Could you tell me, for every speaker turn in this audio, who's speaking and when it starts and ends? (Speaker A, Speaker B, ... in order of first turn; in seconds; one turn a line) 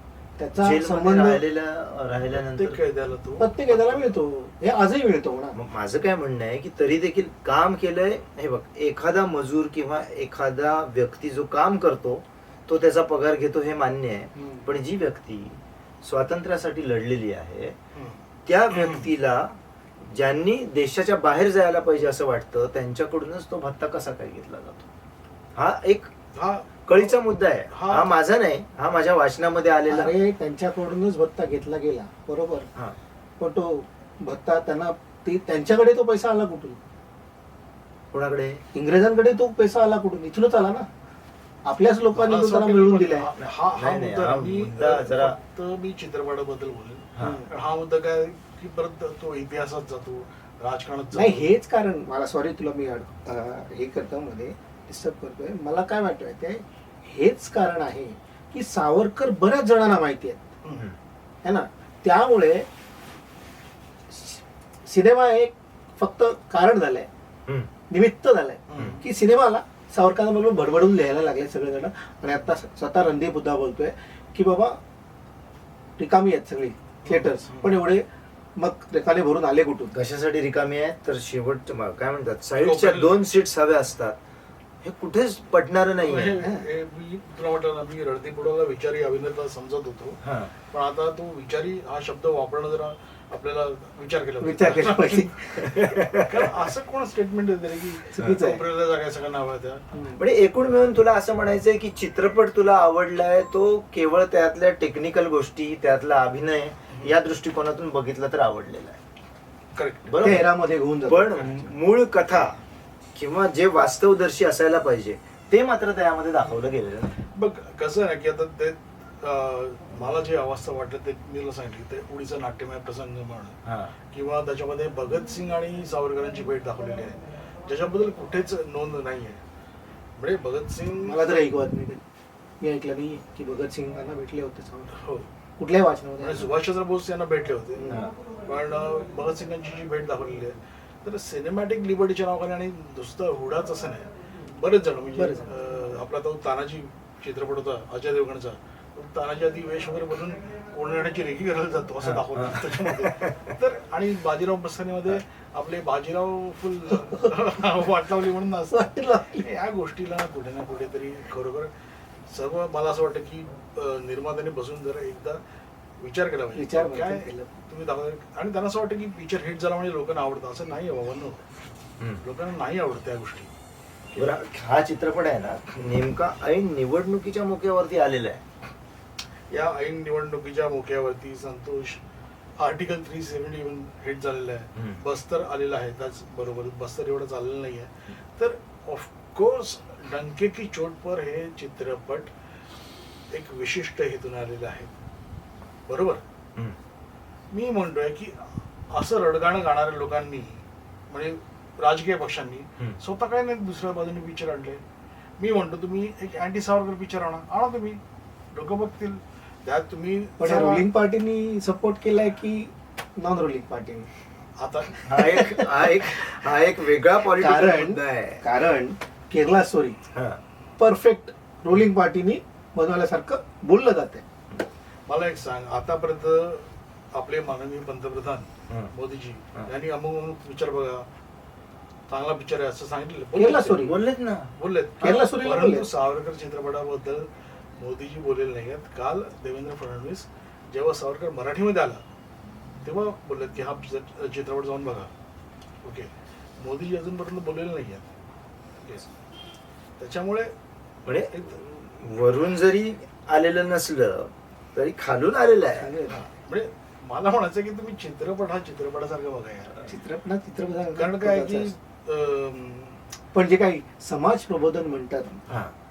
Speaker A: 0.4-1.4
Speaker B: 0.6-2.8
Speaker C: 2.3-4.2
Speaker A: 3.4-5.6
Speaker B: 5.5-17.8
Speaker C: 17.9-19.1
Speaker B: 18.5-24.9
Speaker B: 25.6-26.1
Speaker C: 26.3-28.1
Speaker B: 26.9-30.1
Speaker A: 29.9-32.7
Speaker A: 33.4-36.8
Speaker B: 38.1-38.6
Speaker A: 38.7-40.9
Speaker A: 41.6-43.3
Speaker C: 42.1-51.5
Speaker B: 43.4-45.4
Speaker B: 47.2-47.4
Speaker A: 47.2-47.5
Speaker A: 51.1-60.5
Speaker C: 60.6-60.9
Speaker A: 61.4-62.7
Speaker A: 64.1-67.1
Speaker A: 67.9-74.8
Speaker C: 68.7-69.0
Speaker A: 76.0-78.0
Speaker C: 77.0-77.8
Speaker A: 78.6-79.9
Speaker B: 79.9-84.2
Speaker C: 82.5-83.2
Speaker B: 84.8-86.5
Speaker C: 86.0-99.8
Speaker A: 86.4-86.7
Speaker B: 90.2-90.5
Speaker A: 94.4-95.7
Speaker B: 95.6-96.5
Speaker A: 98.1-98.7
Speaker A: 99.9-100.2
Speaker B: 100.2-109.0
Speaker C: 109.8-110.4
Speaker B: 110.1-110.5
Speaker A: 110.2-111.7
Speaker B: 111.1-112.6
Speaker C: 111.4-111.7
Speaker B: 113.2-117.2
Speaker C: 117.3-123.6
Speaker B: 123.7-123.9
Speaker C: 124.1-129.4
Speaker C: 130.2-131.4
Speaker A: 131.0-132.0
Speaker A: 132.6-135.0
Speaker C: 134.9-135.3
Speaker A: 135.6-136.5
Speaker C: 136.2-161.7
Speaker A: 137.8-138.0
Speaker A: 145.2-145.5
Speaker B: 152.0-153.5
Speaker A: 157.0-157.3
Speaker A: 158.7-159.5
Speaker C: 162.3-165.4
Speaker C: 166.0-171.4
Speaker A: 166.6-167.5
Speaker C: 172.2-173.5
Speaker B: 174.2-178.4
Speaker C: 179.5-182.0
Speaker C: 182.6-192.3
Speaker B: 184.8-185.0
Speaker C: 193.3-194.9
Speaker C: 195.9-196.2
Speaker C: 197.5-204.8
Speaker C: 205.4-208.0
Speaker C: 208.5-210.9
Speaker A: 210.4-214.1
Speaker C: 214.6-215.5
Speaker B: 215.0-218.4
Speaker A: 217.4-220.0
Speaker B: 220.1-220.4
Speaker A: 220.8-224.2
Speaker C: 225.1-231.1
Speaker C: 232.1-234.0
Speaker A: 233.3-234.0
Speaker B: 233.8-234.5
Speaker C: 234.6-237.3
Speaker A: 235.0-235.9
Speaker C: 237.8-242.0
Speaker C: 242.8-245.1
Speaker C: 245.8-248.1
Speaker C: 248.8-249.1
Speaker C: 250.0-250.5
Speaker B: 251.1-255.9
Speaker C: 251.3-251.6
Speaker A: 255.8-256.3
Speaker C: 256.4-259.8
Speaker A: 259.9-261.8
Speaker C: 260.9-263.0
Speaker A: 263.3-265.4